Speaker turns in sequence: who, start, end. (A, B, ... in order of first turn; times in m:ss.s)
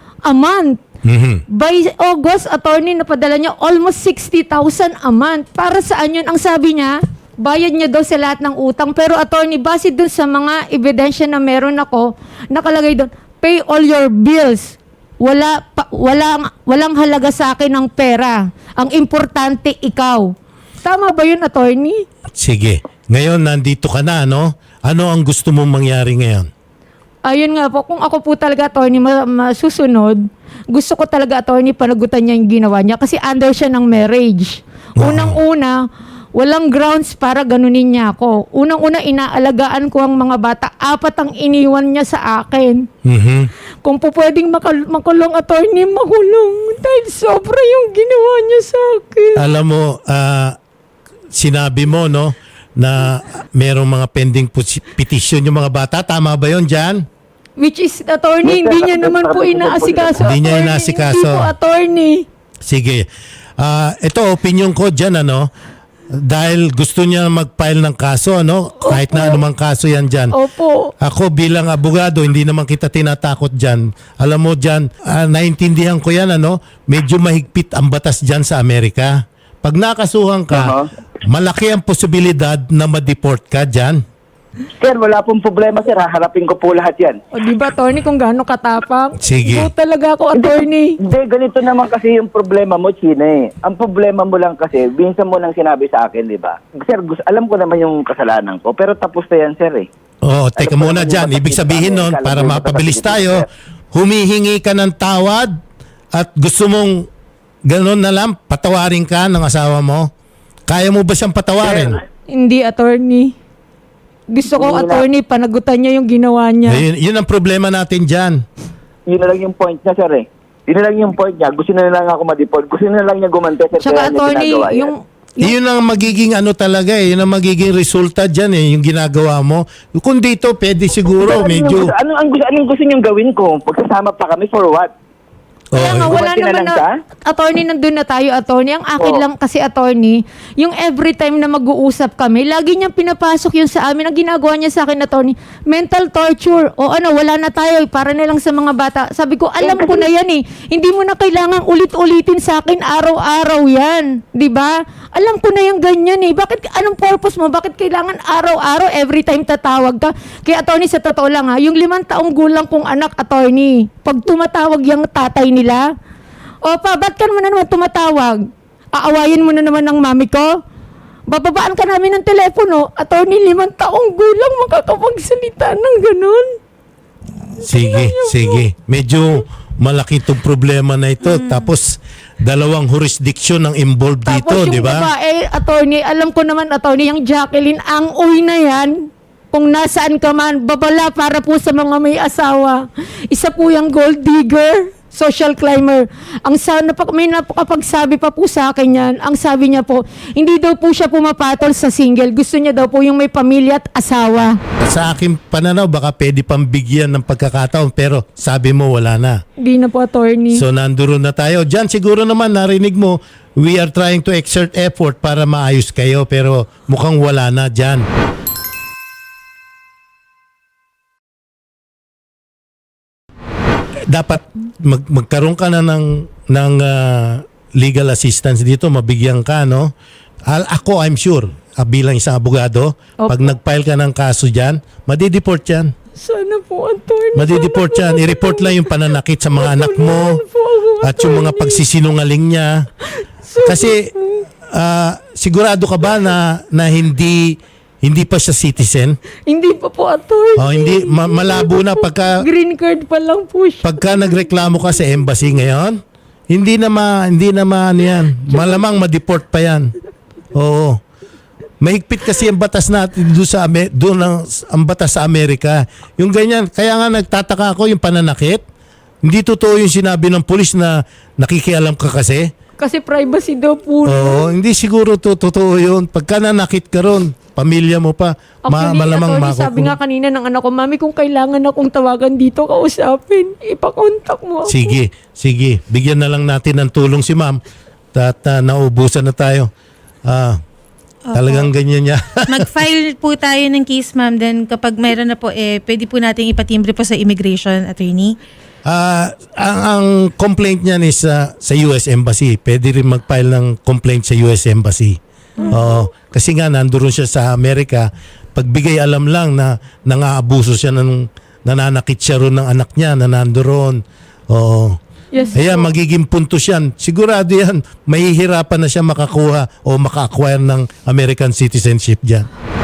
0:00.2-0:00.8 A
0:01.0-0:01.4 B
0:01.5-0:20.3 A
0:20.8-0:22.0 A
0:22.3-0:26.5 B
0:27.3-0:30.2 A
0:30.7-0:35.8 A
0:35.0-0:35.4 B
0:36.3-0:42.8 A
0:43.0-0:43.5 B
0:43.8-0:49.4 A
0:49.4-0:50.6 B
0:51.3-0:57.0 B
0:57.6-1:02.2 A
0:58.4-1:00.3 C
1:00.2-1:01.5 B
1:02.7-1:03.0 B
1:03.6-1:05.5 B
1:06.2-1:10.3 B
1:08.8-1:09.4 A
1:10.3-1:10.9 A
1:11.0-1:20.7 B
1:20.5-1:20.9 C
1:21.2-1:24.0 B
1:24.8-1:27.2 C
1:27.3-1:31.0 A
1:29.2-1:29.7 B
1:30.4-1:39.9 C
1:40.2-1:45.5 B
1:40.6-1:43.4 C
1:46.1-1:47.1 B
1:47.7-1:50.1 B
1:50.7-1:52.0 B
1:51.6-1:52.0 C
1:52.3-1:53.3 A
1:54.3-1:56.8 A
1:54.5-1:55.0 C
1:56.7-1:58.4 B
1:59.1-2:04.9 C
2:03.8-2:05.5 A
2:05.4-2:11.9 B
2:11.1-2:14.9 C
2:15.7-2:16.2 B
2:15.7-2:45.8 A
2:16.0-2:16.9 C
2:29.6-2:30.1 C
2:46.6-2:48.4 A
2:48.9-2:50.5 A
2:51.3-2:56.5 A
2:57.6-2:58.6 A
2:57.6-3:01.9 B
3:01.3-3:01.6 D
3:02.4-3:05.1 B
3:04.2-3:09.0 A
3:09.5-3:24.6 A
3:24.8-3:29.4 B
3:29.6-3:30.6 A
3:30.5-3:38.0 B
3:44.1-3:49.9 B
3:50.5-3:55.9 B
3:53.2-3:53.5 A
3:56.2-3:59.0 A
3:57.3-4:00.4 B
3:59.5-4:01.8 A
4:01.0-4:02.8 B
4:03.1-4:04.4 A
4:03.6-4:04.0 B
4:04.7-4:09.2 B
4:09.5-4:14.1 A
4:10.6-4:12.4 B
4:13.8-4:16.0 B
4:16.5-4:19.9 B
4:20.5-4:21.0 B
4:21.8-4:28.6 B
4:29.2-4:32.5 B
4:32.8-4:34.5 A
4:34.0-4:40.0 B
4:38.7-4:45.0 A
4:44.7-4:47.6 B
4:48.1-4:49.7 B
4:50.3-4:50.6 B
4:51.3-4:51.7 D
4:51.3-4:52.7 B
4:52.5-4:58.3 D
4:58.8-5:05.2 B
5:05.6-5:06.0 A
5:05.7-5:14.0 B
5:14.5-5:15.0 B
5:15.3-5:15.9 A
5:15.5-5:22.4 B